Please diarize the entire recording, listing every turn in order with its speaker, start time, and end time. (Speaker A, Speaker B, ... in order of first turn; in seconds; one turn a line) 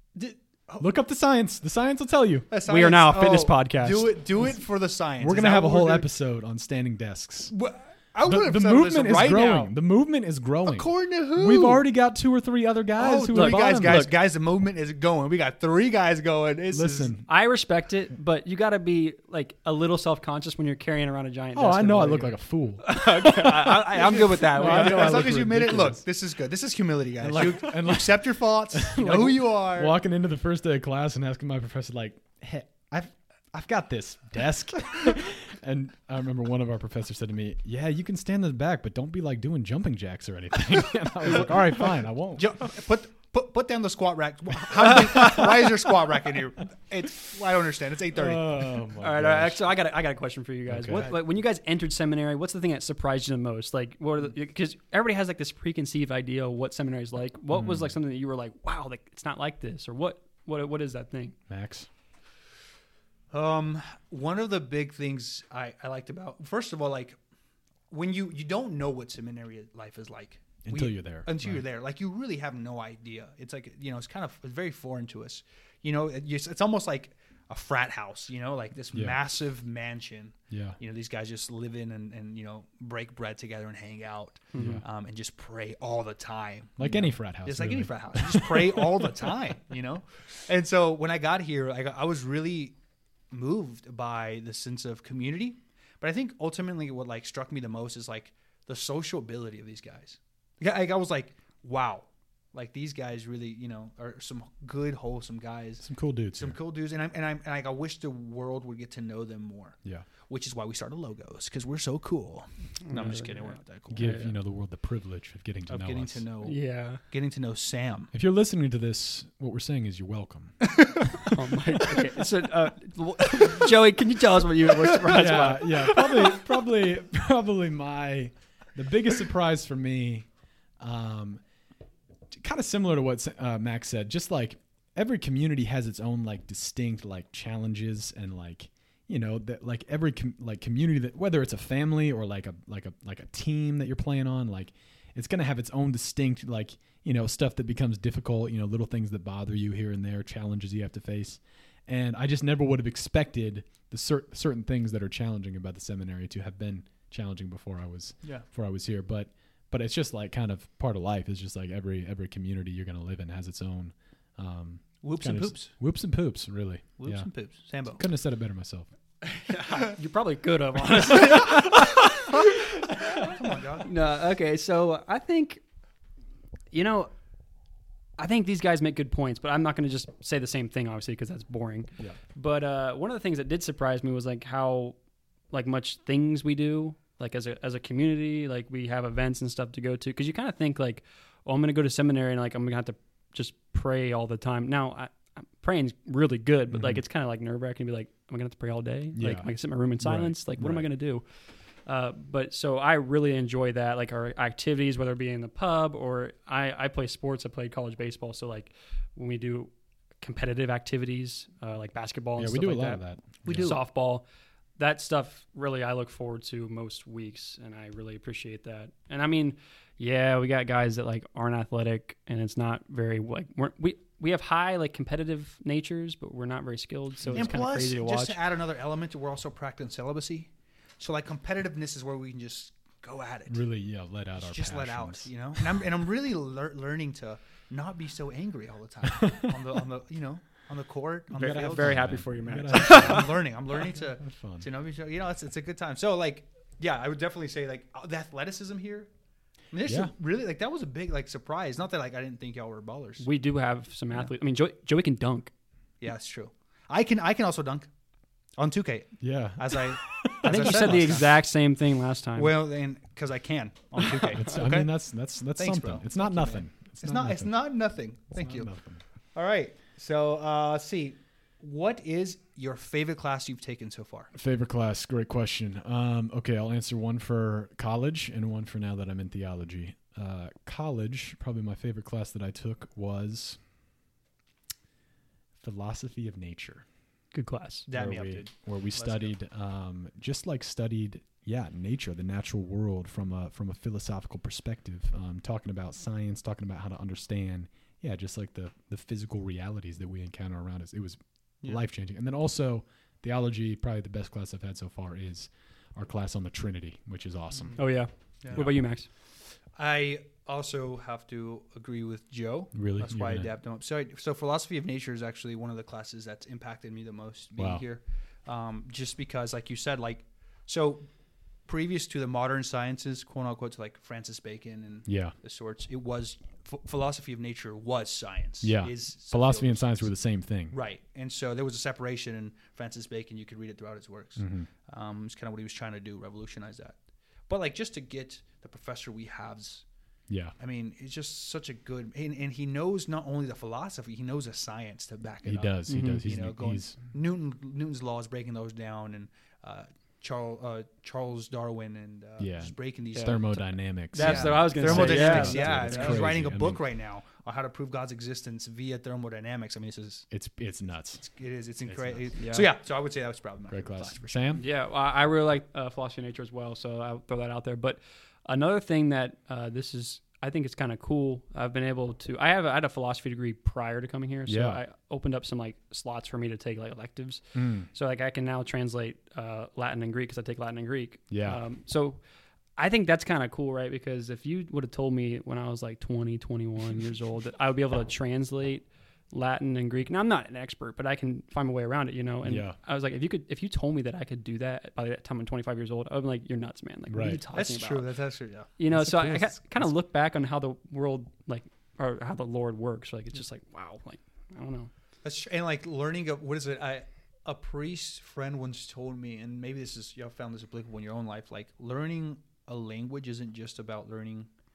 Speaker A: 0.1-0.9
Speaker B: 0.8-2.5
Speaker A: 2.5-6.1
Speaker C: 2.6-4.2
Speaker B: 5.2-7.5
Speaker A: 7.5-9.7
Speaker B: 8.2-14.1
Speaker A: 10.6-11.8
Speaker A: 13.0-17.1
Speaker C: 13.3-14.1
Speaker B: 16.7-17.3
Speaker C: 17.2-25.4
Speaker B: 21.5-22.9
Speaker A: 22.9-29.9
Speaker B: 24.0-26.0
Speaker B: 27.2-42.6
Speaker A: 42.4-48.7
Speaker B: 44.7-45.5
Speaker B: 48.1-49.7
Speaker C: 49.0-61.3
Speaker B: 50.7-51.1
Speaker A: 50.9-51.2
Speaker B: 57.5-57.9
Speaker B: 61.5-61.9
Speaker A: 63.3-67.2
Speaker A: 67.9-92.8
Speaker B: 70.6-71.6
Speaker B: 78.9-79.2
Speaker B: 80.5-80.8
Speaker C: 84.5-84.8
Speaker B: 84.5-84.8
Speaker B: 86.8-89.2
Speaker A: 93.3-114.2
Speaker B: 105.8-106.6
Speaker C: 112.9-114.3
Speaker B: 113.9-116.2
Speaker A: 115.7-118.1
Speaker C: 116.4-117.0
Speaker B: 118.1-120.7
Speaker A: 120.6-121.3
Speaker C: 121.2-126.4
Speaker A: 123.4-123.6
Speaker B: 125.0-130.3
Speaker B: 130.8-131.4
Speaker B: 132.3-167.3
Speaker A: 165.0-165.7
Speaker A: 167.0-168.0
Speaker B: 167.9-168.9
Speaker C: 169.2-175.6
Speaker A: 173.1-173.9
Speaker C: 176.7-177.1
Speaker C: 178.2-184.9
Speaker C: 185.5-201.2
Speaker B: 196.7-197.0
Speaker B: 199.1-200.9
Speaker C: 201.8-214.2
Speaker B: 212.3-213.8
Speaker A: 213.4-213.8
Speaker C: 214.8-228.4
Speaker B: 227.2-227.6
Speaker A: 227.3-233.6
Speaker B: 233.5-235.6
Speaker A: 234.4-242.0
Speaker B: 239.1-239.6
Speaker C: 241.3-243.4
Speaker B: 241.3-243.4
Speaker A: 242.7-249.1
Speaker B: 244.2-244.6
Speaker A: 249.7-253.3
Speaker B: 249.8-250.1
Speaker C: 253.2-255.5
Speaker A: 256.0-257.9
Speaker A: 258.6-261.4
Speaker B: 259.2-261.3
Speaker C: 260.4-262.6
Speaker A: 262.3-264.9
Speaker C: 264.1-264.4
Speaker B: 264.3-267.5
Speaker A: 265.6-268.7
Speaker B: 268.3-269.0
Speaker A: 269.3-274.3
Speaker B: 274.3-283.6
Speaker B: 285.6-286.8
Speaker C: 287.3-287.9
Speaker A: 287.9-289.3
Speaker B: 287.9-307.9
Speaker C: 307.8-309.1
Speaker A: 308.4-308.7
Speaker B: 308.5-308.8
Speaker A: 309.8-321.1
Speaker B: 312.7-313.5
Speaker B: 317.6-317.8
Speaker A: 321.6-330.1
Speaker B: 325.1-325.3
Speaker B: 328.6-330.8
Speaker A: 330.7-339.8
Speaker B: 334.4-334.7
Speaker B: 340.3-340.5
Speaker A: 340.6-360.3
Speaker B: 345.4-346.9
Speaker C: 345.9-346.2
Speaker B: 352.4-356.8
Speaker C: 354.1-356.3
Speaker B: 360.3-361.2
Speaker A: 361.2-364.4
Speaker B: 361.9-362.4
Speaker C: 362.4-362.7
Speaker B: 363.7-364.6
Speaker C: 364.6-382.2
Speaker B: 374.5-374.8
Speaker B: 377.5-377.9
Speaker B: 381.3-381.6
Speaker C: 382.8-398.1
Speaker B: 392.4-392.8
Speaker B: 397.1-397.4
Speaker A: 397.5-398.7
Speaker C: 398.8-404.9
Speaker B: 398.9-399.4
Speaker A: 405.2-414.5